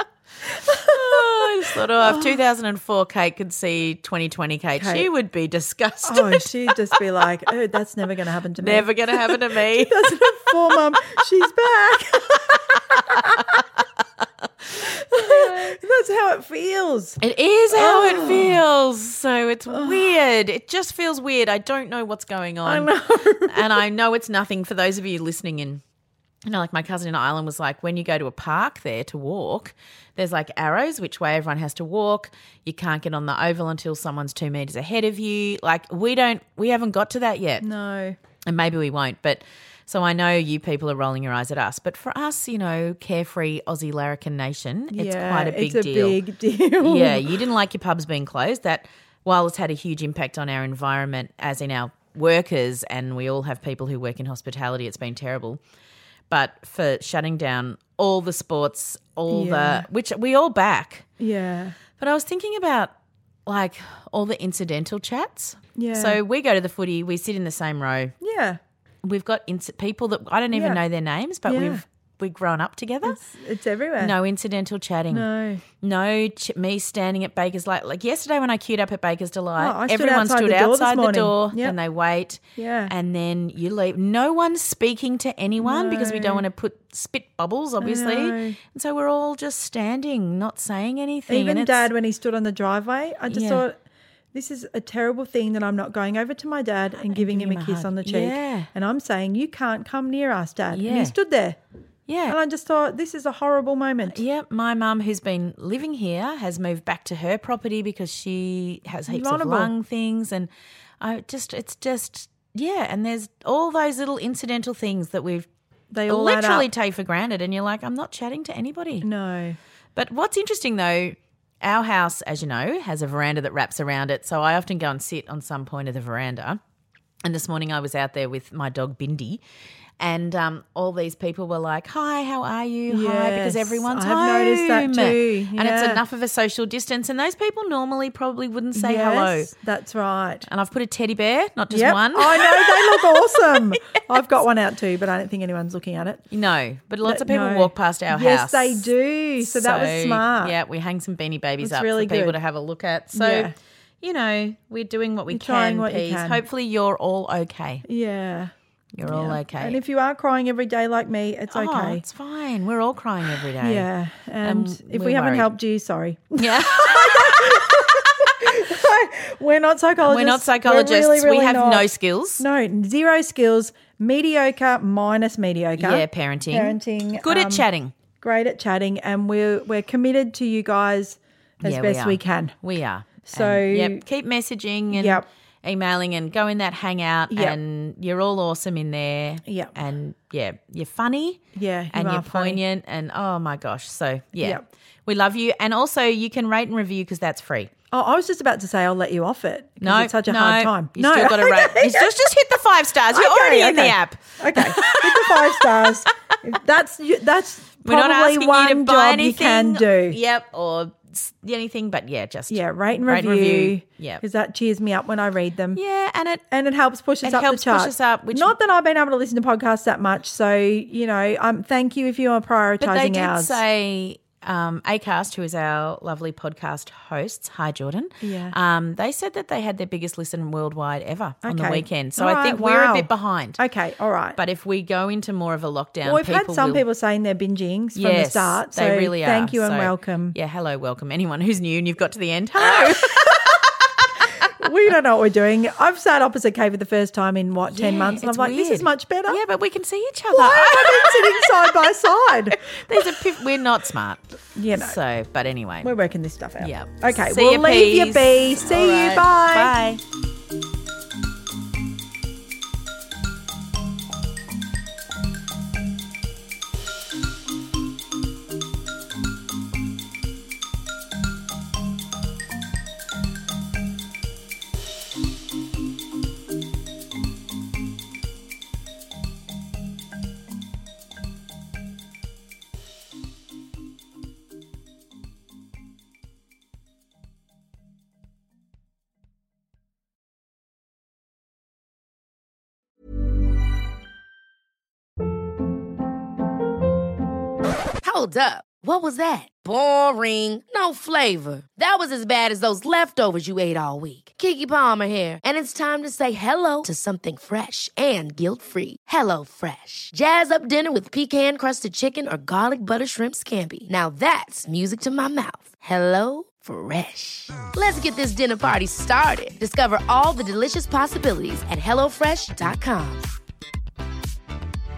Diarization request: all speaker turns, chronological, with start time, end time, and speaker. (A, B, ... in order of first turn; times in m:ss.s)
0:00.5-0:02.4 A
0:00.8-0:06.5 B
0:04.8-0:05.1 A
0:06.0-0:13.6 A
0:08.6-0:10.8 B
0:13.0-0:13.6 B
0:14.8-0:17.2 A
0:15.1-0:15.8 B
0:17.2-0:25.8 B
0:17.7-0:18.6 A
0:19.7-0:20.1 A
0:22.6-0:23.8 A
0:26.4-0:37.6 B
0:37.6-0:38.2 A
0:38.4-0:46.2 B
0:44.9-0:47.5 A
0:46.8-0:55.6 B
0:56.3-1:01.1 B
0:59.3-0:59.8 A
1:01.2-1:01.8 A
1:02.0-1:02.9 B
1:03.4-1:08.2 B
1:05.8-1:06.2 A
1:08.2-1:08.6 A
1:09.0-1:13.2 B
1:10.5-1:10.8 A
1:11.4-1:11.8 A
1:13.0-1:14.1 A
1:14.0-1:15.3 B
1:15.1-1:15.6 A
1:15.8-1:31.9 B
1:19.6-1:21.8 A
1:22.6-1:22.9 A
1:25.6-1:26.4 A
1:27.8-1:28.6 A
1:31.3-1:33.8 A
1:33.3-1:33.6 B
1:34.3-1:41.6 A
1:37.1-1:38.7 B
1:40.7-1:41.1 B
1:42.1-1:42.4 B
1:42.3-1:44.2 A
1:44.1-1:55.5 B
1:49.1-1:49.7 A
1:55.9-1:56.7 A
1:56.1-1:59.1 B
1:59.0-1:59.6 A
1:59.9-2:06.6 B
2:07.2-2:09.4 B
2:10.0-2:19.5 B
2:12.9-2:16.0 A
2:18.7-2:20.5 A
2:20.5-2:23.6 B
2:21.7-2:26.2 A
2:26.3-2:37.8 B
2:27.0-2:30.6 A
2:31.6-2:32.4 A
2:33.1-2:33.5 A
2:35.3-2:36.4 A
2:37.8-2:38.5 A
2:38.9-2:39.8 B
2:39.0-2:42.0 A
2:41.5-2:43.9 B
2:43.4-2:57.6 A
2:44.4-2:45.5 B
2:46.4-2:48.5 B
2:50.0-2:52.4 B
2:55.8-2:57.9 B
2:58.2-3:02.6 A
3:01.6-3:17.7 B
3:03.2-3:04.0 A
3:04.9-3:05.2 A
3:07.3-3:07.6 A
3:09.4-3:09.7 A
3:11.5-3:12.6 A
3:17.9-3:22.1 A
3:19.8-3:25.9 B
3:23.1-3:30.2 A
3:27.8-3:34.2 B
3:32.5-3:35.8 A
3:35.7-3:36.4 B
3:36.5-3:43.6 A
3:37.2-3:38.6 B
3:42.8-3:53.6 B
3:48.2-3:48.5 A
3:51.4-3:54.4 A
3:54.4-3:56.8 B
3:56.0-4:00.4 A
3:57.9-4:04.2 B
4:02.6-4:03.5 A
4:04.4-4:09.4 A
4:07.7-4:11.7 B
4:10.3-4:12.8 A
4:12.5-4:15.9 B
4:14.5-4:15.0 A
4:15.8-4:19.7 A
4:16.6-4:20.0 B
4:58.0-5:23.3 C